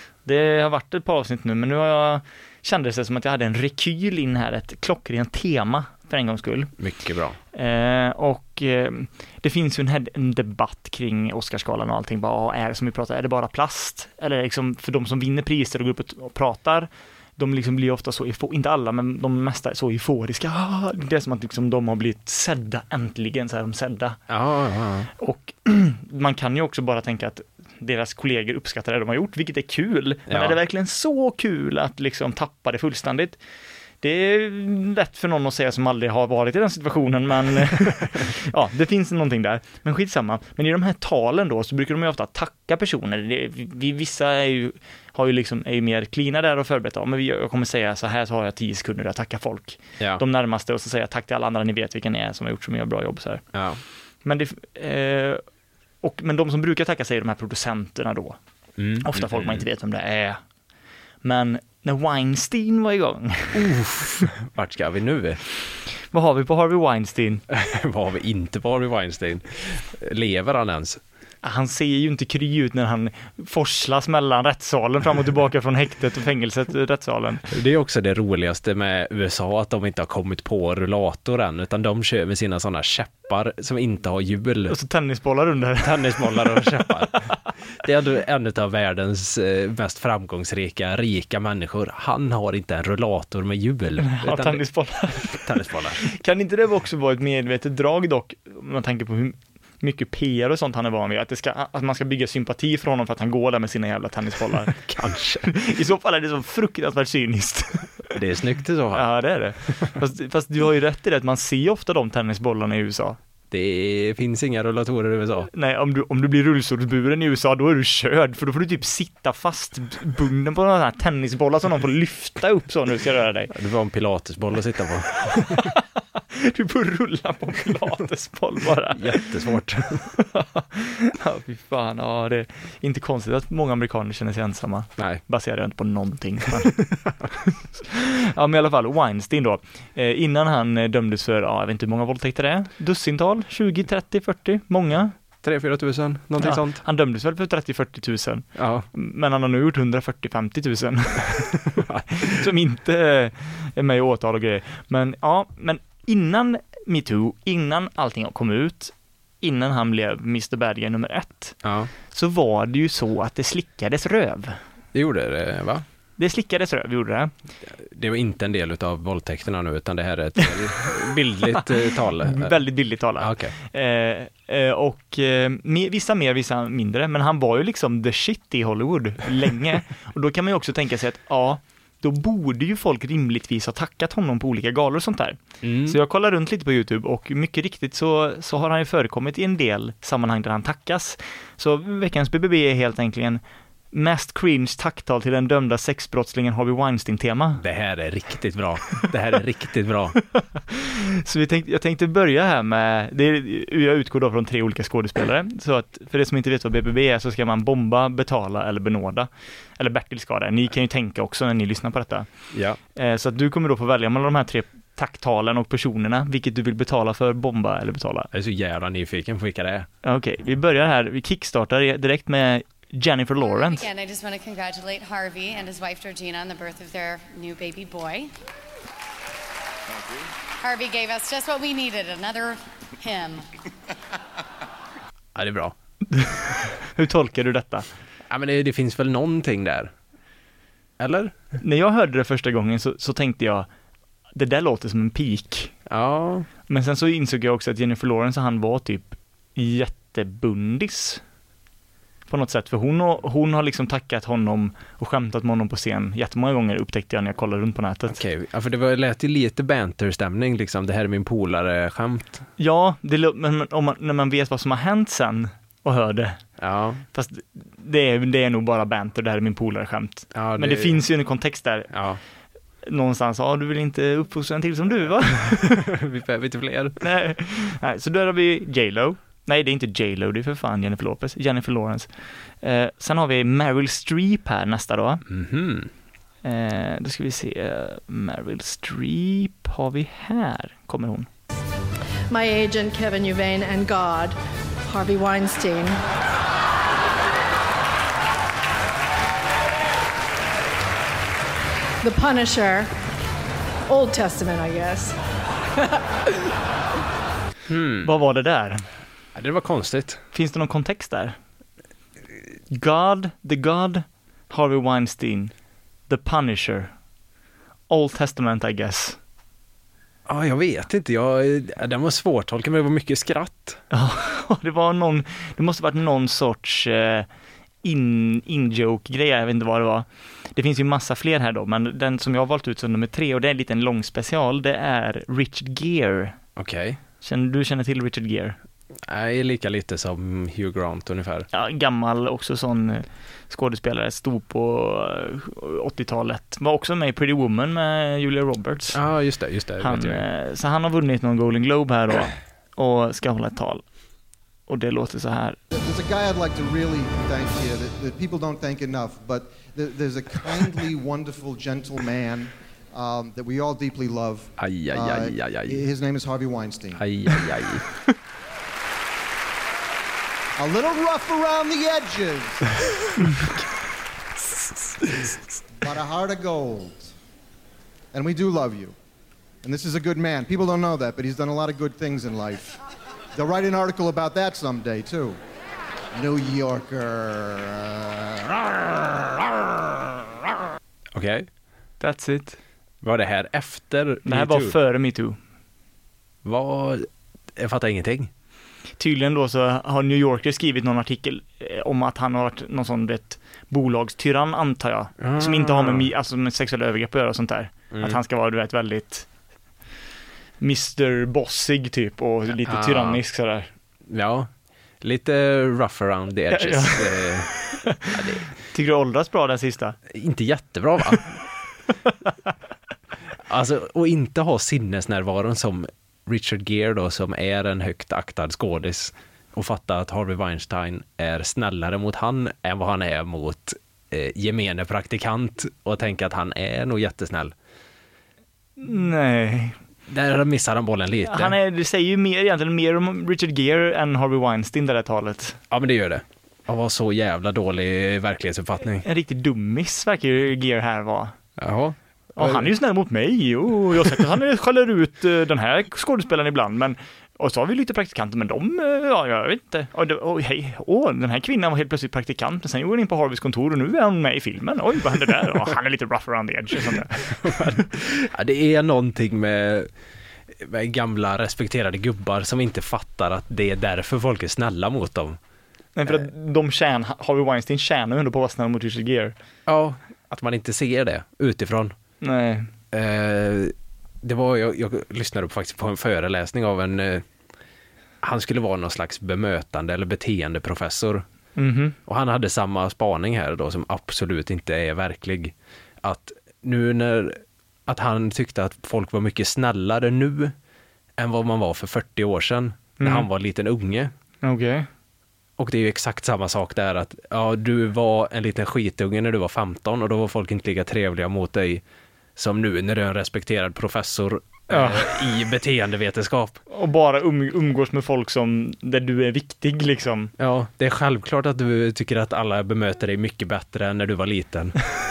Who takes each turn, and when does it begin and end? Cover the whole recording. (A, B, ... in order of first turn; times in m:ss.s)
0:00.2-0:06.7 A
0:06.8-0:07.4 B
0:07.5-0:24.2 A
0:24.3-0:25.1 B
0:25.2-0:33.4 A
0:30.3-0:30.6 B
0:34.0-0:53.4 A
0:53.5-0:53.8 B
0:54.2-0:55.4 A
0:56.0-0:58.4 A
0:58.8-0:59.6 B
0:59.0-1:00.4 A
1:01.2-1:03.6 A
1:03.5-1:05.4 B
1:06.1-1:07.4 A
1:07.5-1:11.0 B
1:11.4-1:17.5 A
1:17.5-1:24.7 B
1:24.7-1:27.2 A
1:25.8-1:36.0 B
1:34.0-1:35.5 A
1:36.0-1:44.8 A
1:44.7-1:45.5 B
1:45.5-1:48.1 A
1:48.1-1:49.0 B
1:48.9-1:53.2 A
1:53.5-1:55.5 B
1:55.5-2:03.5 A
2:03.5-2:05.6 B
2:05.3-2:09.3 A
2:08.9-2:10.1 B
2:10.1-2:16.8 A
2:15.0-2:15.2 B
2:16.9-2:17.3 B
2:17.8-2:25.1 A
2:25.4-2:26.8 B
2:26.4-2:44.6 A
2:28.5-2:28.9 B
2:31.7-2:32.2 B
2:41.6-2:41.9 B
2:44.9-2:45.8 B
2:46.2-2:47.3 A
2:47.7-2:52.6 B
2:51.5-3:13.4 A
2:53.2-2:53.5 B
3:05.6-3:06.0 B
3:13.9-3:17.6 A
3:17.6-3:20.2 B
3:20.3-3:32.3 A
3:32.5-3:32.8 B
3:32.9-3:38.3 A
3:38.3-3:39.9 B
3:40.0-3:43.8 A
3:43.4-3:48.3 C
3:50.6-3:53.5 C
3:55.3-3:55.7 B
3:56.1-3:57.9 A
3:58.3-3:59.9 B
4:01.0-4:01.3 B
4:01.6-4:03.7 A
4:04.3-4:05.7 A
4:05.9-4:06.5 B
4:06.7-4:11.2 A
4:12.3-4:18.2 A
4:18.1-4:22.4 B
4:22.6-4:26.4 A
4:26.6-4:27.0 B
4:27.1-4:31.9 A
4:30.3-4:31.0 B
4:31.9-4:32.2 B
4:32.8-4:35.8 A
4:35.8-4:37.0 B
4:37.0-4:42.1 A
4:42.6-4:45.2 A
4:45.3-4:45.9 B
4:46.4-4:51.3 A
4:52.3-4:56.0 D
5:02.0-5:02.9 D
5:03.9-5:05.2 D
5:07.7-5:08.1 B
5:08.0-5:08.8 A
5:09.3-5:10.2 B
5:10.3-5:11.4 A
5:12.7-5:15.5 A
5:16.1-5:16.9 A
5:17.9-5:19.2 A
5:20.3-5:23.8 B
5:23.9-5:27.3 A
5:27.8-5:36.4 A
5:36.6-5:37.0 B
5:37.2-5:38.6 A
5:39.0-5:41.5 B
5:41.5-5:49.0 A
5:48.9-5:50.2 B
5:49.8-5:53.8 A
5:54.7-5:55.6 A
5:55.7-6:07.0 E
6:04.6-6:05.8 B
6:06.9-6:07.8 B
6:10.6-6:13.1 E
6:15.8-6:17.1 E
6:18.1-6:18.9 E
6:19.6-6:22.8 E
6:23.4-6:25.4 E
6:26.1-6:29.2 E
6:31.1-6:31.5 B
6:32.0-6:32.6 A
6:33.0-6:34.8 B
6:34.2-6:35.4 A
6:36.4-6:38.3 B
6:39.0-6:49.3 A
6:45.2-6:46.1 B
6:47.9-6:48.2 B
6:50.6-6:53.7 A
6:52.6-6:53.2 B
6:54.1-6:54.5 B
6:55.0-6:58.4 B
6:56.5-6:58.1 A
6:58.7-7:00.0 A
7:00.1-7:01.4 B
7:03.5-7:17.5 B
7:18.8-7:19.8 A
7:20.1-7:21.6 B
7:21.2-7:25.6 A
7:25.7-7:29.0 B
7:29.0-7:31.3 A
7:31.6-7:32.7 B
7:32.4-7:47.8 A
7:47.4-7:49.9 B
7:50.5-7:55.4 B
7:56.0-7:59.3 A
7:59.6-8:01.9 B
8:02.2-8:02.7 A
8:02.9-8:07.2 B
8:08.2-8:11.2 B
8:11.6-8:12.0 A
8:12.0-8:20.5 B
8:21.2-8:24.1 B
8:23.0-8:23.3 A
8:24.4-8:24.9 A
8:25.6-8:31.8 B
8:32.4-8:36.6 B
8:34.7-8:35.2 A
8:36.7-8:40.3 A
8:40.4-8:44.8 B